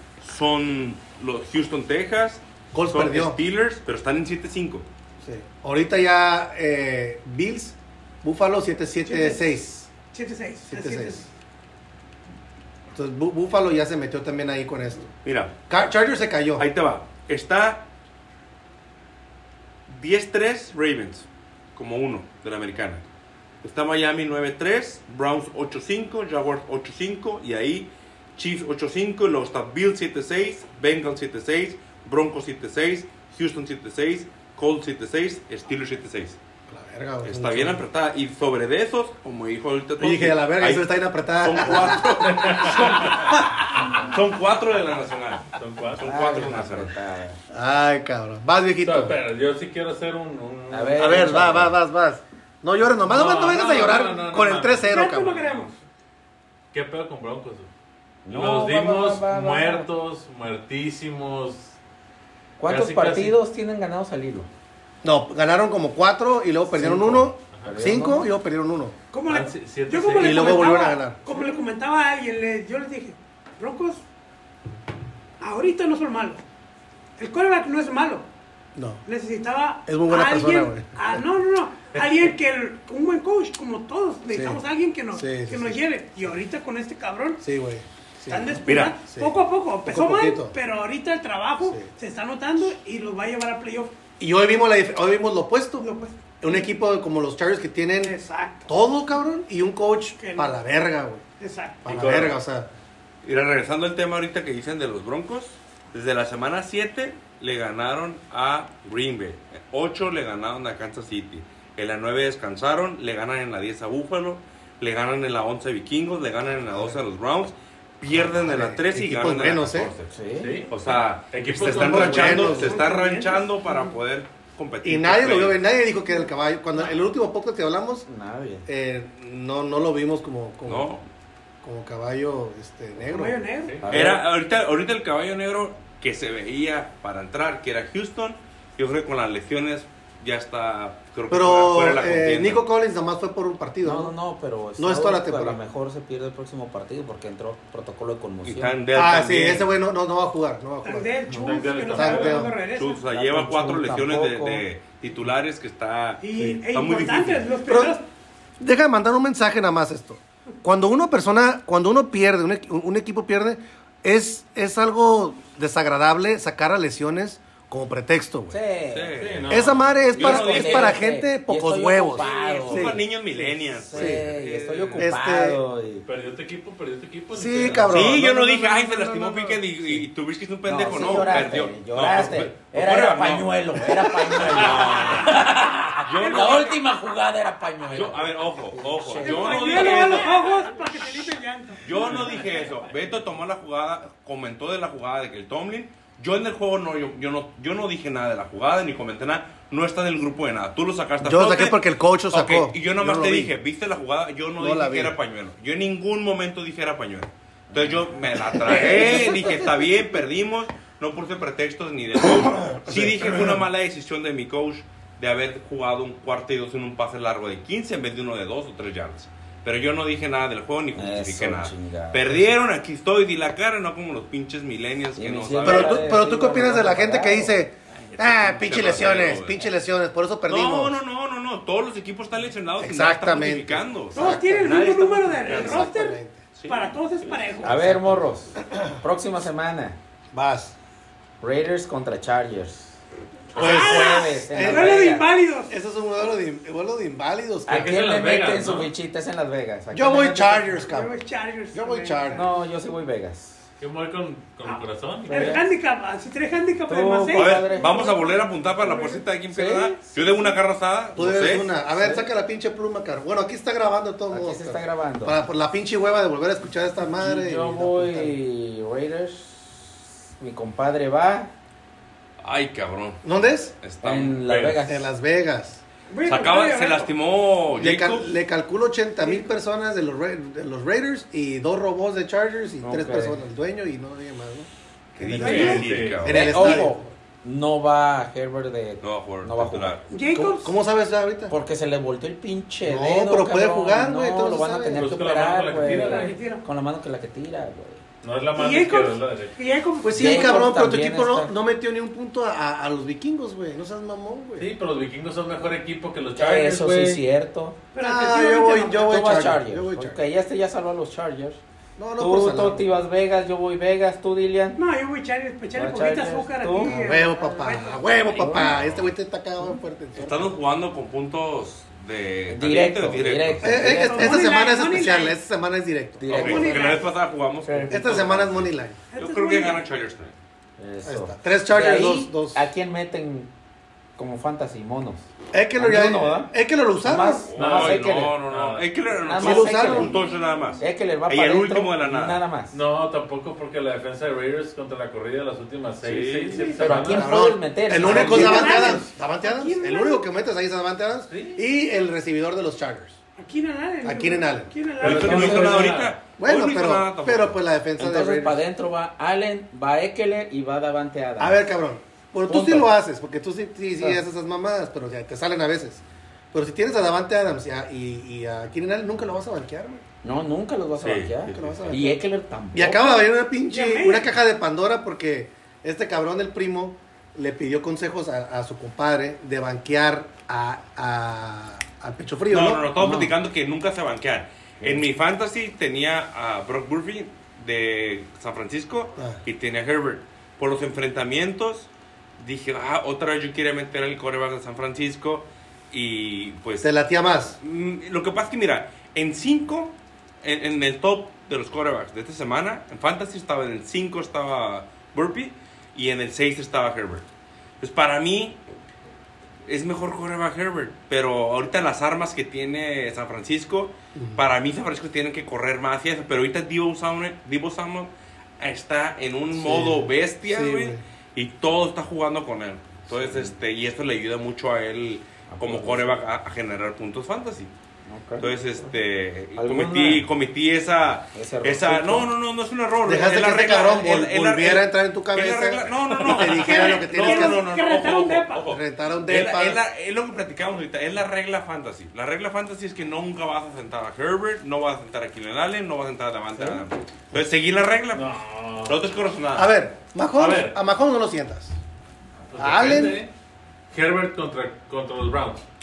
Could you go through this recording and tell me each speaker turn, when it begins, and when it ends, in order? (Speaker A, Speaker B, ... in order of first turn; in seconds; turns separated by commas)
Speaker A: 0.2-4.8, Speaker B: 2.7-3.4, Speaker B: 5.2-9.9, Speaker C: 9.1-9.5, Speaker C: 10.1-11.3, Speaker B: 10.7-11.3, Speaker B: 12.9-15.1, Speaker A: 15.2-15.6, Speaker B: 15.7-16.7, Speaker A: 16.6-17.8, Speaker A: 19.9-23.0, Speaker A: 23.6-36.4, Speaker B: 36.7-37.8, Speaker A: 37.2-46.9, Speaker B: 40.0-42.0, Speaker D: 42.1-44.1, Speaker D: 45.6-46.0, Speaker E: 46.0-47.4, Speaker B: 47.5-49.2, Speaker D: 48.8-51.6, Speaker E: 50.7-51.7, Speaker B: 51.0-55.4, Speaker D: 53.0-55.7, Speaker C: 54.9-55.8, Speaker D: 56.7-57.7, Speaker E: 58.2-59.9, Speaker D: 58.3-61.8, Speaker E: 62.6-64.5, Speaker D: 62.6-63.4, Speaker B: 65.0-69.0, Speaker E: 66.7-68.3, Speaker D: 67.5-67.8, Speaker C: 69.1-74.0, Speaker D: 69.3-70.8, Speaker B: 70.2-71.2, Speaker C: 75.4-76.4, Speaker C: 77.2-78.2, Speaker B: 78.7-79.0, Speaker C: 79.0-87.4, Speaker B: 79.8-81.2, Speaker B: 84.3-84.6, Speaker B: 85.1-86.3, Speaker B: 87.4-90.5, Speaker C: 88.3-93.9, Speaker A: 88.7-89.0, Speaker B: 91.6-91.9, Speaker B: 94.2-101.2, Speaker C: 95.8-96.7, Speaker C: 98.0-98.8, Speaker C: 100.2-100.6, Speaker C: 101.4-102.0, Speaker A: 101.8-102.3, Speaker B: 101.8-102.7, Speaker D: 102.0-102.3, Speaker A: 103.2-120.1, Speaker B: 116.7-117.0, Speaker B: 118.1-119.9, Speaker E: 120.1-120.6, Speaker D: 120.4-120.8, Speaker A: 120.7-125.6, Speaker D: 121.3-122.6, Speaker B: 121.5-122.8, Speaker C: 122.4-123.9, Speaker B: 124.8-128.1, Speaker E: 128.1-128.7, Speaker B: 128.7-131.0, Speaker A: 130.6-131.0, Speaker B: 131.6-133.4, Speaker C: 133.0-133.8, Speaker D: 133.6-133.9, Speaker E: 133.8-134.2, Speaker A: 133.9-142.6, Speaker B: 141.3-144.1, Speaker E: 143.8-148.8, Speaker B: 144.8-145.6, Speaker A: 148.4-149.7, Speaker B: 148.9-152.5, Speaker C: 150.8-153.0, Speaker D: 151.2-152.5, Speaker A: 152.6-157.5, Speaker E: 153.1-154.6, Speaker C: 156.2-158.1, Speaker B: 157.7-158.0, Speaker B: 158.6-168.6, Speaker E: 168.5-169.2, Speaker A: 168.9-171.0, Speaker D: 169.2-170.4, Speaker B: 169.5-174.2, Speaker E: 170.1-173.0, Speaker A: 172.1-175.1, Speaker E: 173.7-176.1, Speaker B: 174.9-175.6, Speaker D: 176.1-178.1, Speaker B: 177.3-179.6, Speaker A: 177.9-186.8, Speaker E: 180.6-190.2, Speaker C: 186.2-186.6, Speaker A: 187.9-190.6, Speaker C: 189.2-192.2, Speaker A: 191.8-201.8, Speaker D: 191.9-192.4, Speaker B: 201.2-203.5, Speaker A: 202.3-226.0, Speaker B: 204.6-205.2, Speaker E: 207.7-209.3, Speaker B: 212.7-213.6, Speaker E: 220.9-222.5, Speaker E: 225.2-227.6, Speaker B: 225.6-231.0, Speaker A: 228.2-229.7, Speaker A: 230.5-235.9, Speaker B: 232.8-234.9, Speaker C: 234.1-238.1, Speaker B: 235.4-236.4, Speaker A: 236.5-237.7, Speaker E: 237.6-240.0, Speaker B: 238.7-239.0, Speaker B: 240.3-240.7, Speaker E: 241.4-243.0, Speaker B: 243.5-245.2, Speaker E: 243.5-245.3, Speaker C: 243.6-245.7, Speaker B: 245.7-247.9, Speaker E: 247.7-250.8, Speaker D: 247.7-248.9, Speaker B: 249.9-251.2, Speaker C: 250.8-252.5, Speaker B: 251.7-252.4, Speaker E: 252.3-253.6, Speaker D: 253.8-255.6, Speaker C: 254.6-259.2, Speaker E: 255.2-255.6, Speaker E: 256.9-258.1, Speaker A: 257.3-261.7, Speaker E: 259.5-260.2, Speaker B: 261.1-268.4, Speaker E: 261.9-262.3, Speaker E: 264.3-265.4, Speaker E: 267.2-271.5, Speaker A: 272.4-273.2, Speaker B: 273.2-273.7, Speaker A: 273.8-274.4, Speaker E: 274.0-275.1, Speaker D: 274.4-274.8, Speaker B: 274.9-275.8, Speaker C: 276.1-277.1, Speaker A: 276.2-278.3, Speaker B: 277.8-287.1, Speaker C: 279.2-279.4, Speaker E: 282.8-283.4, Speaker A: 285.1-286.8, Speaker D: 285.3-286.3, Speaker C: 285.4-285.9, Speaker E: 286.2-290.0, Speaker A: 289.0-290.0, Speaker C: 290.1-290.7, Speaker B: 290.3-291.5, Speaker E: 291.5-298.0, Speaker B: 292.8-295.1, Speaker D: 294.9-296.4, Speaker C: 295.9-296.6, Speaker D: 298.2-299.6, Speaker C: 298.5-300.7, Speaker B: 300.0-304.7, Speaker E: 300.1-301.5, Speaker D: 304.6-307.2, Speaker E: 306.3-307.8, Speaker C: 307.9-309.3, Speaker B: 308.0-310.2, Speaker E: 309.1-311.6, Speaker B: 312.0-312.8, Speaker E: 312.2-314.8, Speaker C: 314.8-318.1, Speaker E: 315.7-317.2, Speaker B: 316.8-320.5, Speaker E: 318.2-318.8, Speaker A: 318.5-319.1, Speaker A: 320.1-323.8, Speaker E: 322.5-324.4, Speaker B: 323.6-326.6, Speaker C: 323.9-325.4, Speaker E: 326.2-327.0, Speaker A: 326.3-330.3, Speaker C: 326.3-327.1, Speaker E: 327.6-328.2, Speaker B: 327.9-329.0, Speaker C: 329.1-329.8, Speaker E: 330.8-333.5, Speaker B: 331.0-332.7, Speaker E: 334.2-338.4, Speaker B: 335.5-337.5, Speaker A: 337.5-342.4, Speaker D: 337.6-338.9, Speaker E: 339.2-340.1, Speaker B: 339.4-340.2, Speaker E: 340.8-342.8, Speaker D: 342.7-348.5, Speaker A: 346.0-346.8, Speaker B: 346.5-353.2, Speaker E: 346.7-349.1, Speaker C: 348.2-350.2, Speaker D: 351.3-351.6, Speaker C: 353.4-355.9, Speaker B: 354.0-354.7, Speaker D: 355.0-356.1, Speaker A: 355.0-357.6, Speaker E: 355.0-355.9, Speaker B: 356.4-358.6, Speaker E: 358.0-361.7, Speaker B: 361.4-370.0, Speaker E: 362.5-362.9, Speaker E: 370.2-373.2, Speaker A: 371.0-372.0, Speaker B: 371.5-372.2, Speaker B: 372.7-382.9, Speaker C: 373.7-374.3, Speaker A: 382.5-407.2, Speaker E: 383.0-383.3, Speaker B: 396.8-397.6, Speaker A: 407.8-408.6, Speaker A: 409.6-427.7, Speaker B: 414.1-414.4, Speaker B: 419.5-421.0, Speaker E: 423.1-423.5, Speaker E: 425.5-426.2, Speaker E: 428.1-428.9, Speaker A: 428.4-449.7, Speaker E: 429.6-430.3, Speaker E: 431.3-432.3, Speaker B: 433.0-437.6, Speaker C: 436.5-438.7, Speaker B: 438.7-439.8, Speaker D: 448.1-449.0, Speaker B: 449.6-451.8, Speaker D: 450.4-450.8, Speaker D: 452.5-453.3, Speaker B: 452.6-453.2, Speaker D: 453.9-455.6